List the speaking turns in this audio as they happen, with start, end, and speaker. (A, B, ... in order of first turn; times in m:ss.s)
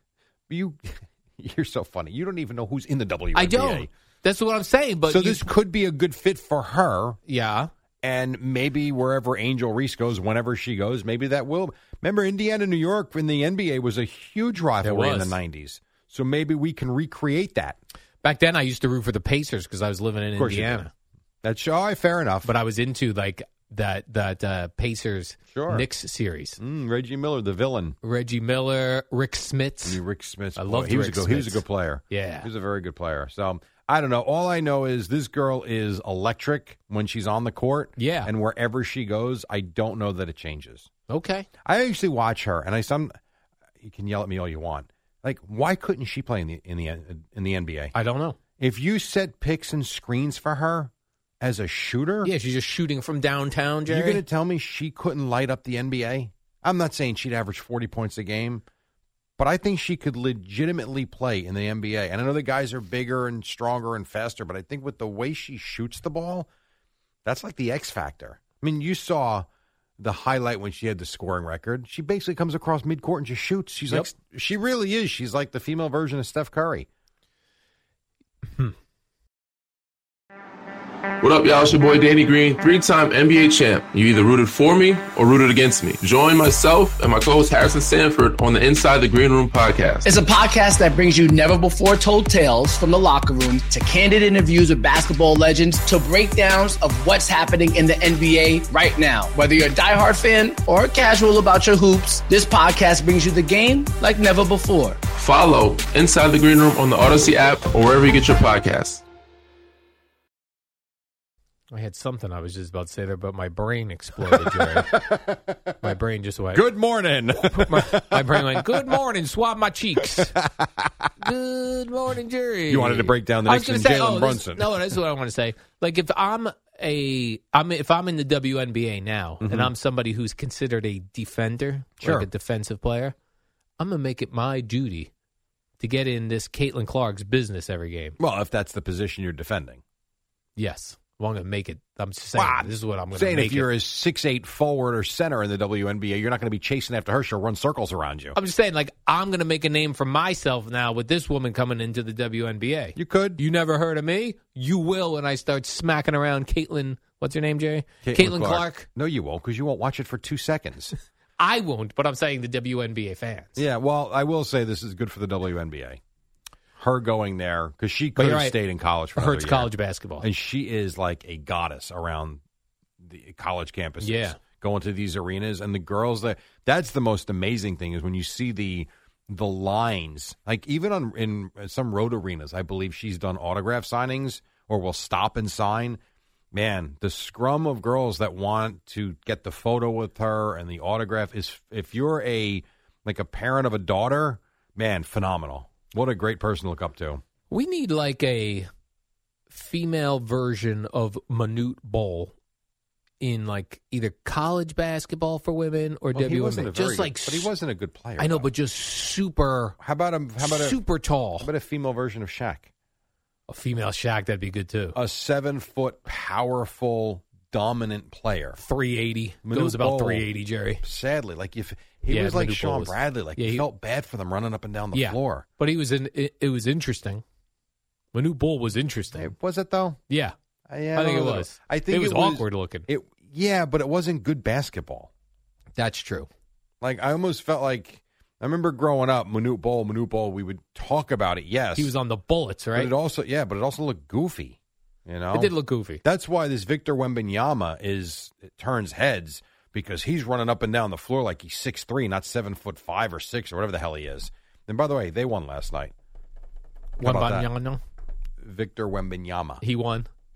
0:00.5-0:03.9 A
0:03.3-0:05.5 B
0:05.1-0:07.2 A
0:07.3-0:07.7 B
0:08.0-0:17.8 A
0:14.8-0:15.4 B
0:18.2-0:20.9 B
0:20.4-0:20.9 A
0:21.4-0:22.6 A
0:22.4-0:26.6 B
0:25.5-0:25.9 A
0:26.6-0:28.0 A
0:28.0-0:30.0 B
0:29.8-0:40.9 A
0:30.6-0:32.5 B
0:38.0-0:38.3 B
0:41.1-0:41.5 B
0:41.6-0:43.1 A
0:43.8-0:47.9 A
0:47.9-0:48.4 B
0:48.6-0:52.3 A
0:52.2-0:54.3 B
0:53.9-0:58.6 A
0:59.4-1:06.5 A
1:07.2-1:09.5 A
1:10.0-1:16.9 A
1:21.2-1:30.0 C
1:30.0-1:45.0 D
1:45.2-1:49.0 C
1:51.7-1:55.1 B
1:54.2-1:55.8 A
1:55.8-1:56.7 B
1:56.5-1:59.0 A
1:57.4-2:00.5 B
2:01.2-2:13.2 B
2:02.7-2:05.0 A
2:09.4-2:09.7 A
2:12.0-2:12.3 A
2:13.8-2:15.1 B
2:15.8-2:18.2 B
2:18.2-2:19.8 A
2:20.6-2:23.7 B
2:22.3-2:28.4 A
2:28.3-2:38.9 B
2:33.0-2:33.4 A
2:38.0-2:41.0 A
2:41.4-2:43.7 B
2:43.6-2:46.0 A
2:46.8-2:52.4 A
2:48.2-2:48.6 B
2:49.1-2:50.3 B
2:53.0-3:06.0 A
2:54.0-2:54.4 B
3:06.5-3:17.2 A
3:17.5-3:18.7 B
3:19.5-3:22.3 B
3:23.2-3:27.6 B
3:26.1-3:28.5 A
3:28.2-3:29.8 B
3:29.8-3:30.8 A
3:30.4-3:31.5 B
3:31.4-3:32.7 A
3:33.5-3:35.0 B
3:35.0-3:38.6 A
3:38.6-3:40.8 B
3:39.4-3:40.3 A
3:40.8-3:45.5 A
3:42.1-3:43.7 B
3:44.9-3:47.2 B
3:48.1-3:49.4 B
3:49.1-3:50.0 A
3:50.1-3:50.4 B
3:50.7-3:55.1 A
3:50.9-3:52.9 B
3:55.8-3:56.3 B
3:56.8-4:01.9 A
4:01.7-4:02.9 B
4:02.7-4:15.9 A
4:05.3-4:06.0 B
4:17.0-4:17.8 B
4:17.0-4:17.5 A
4:18.4-4:19.6 A
4:19.6-4:20.1 B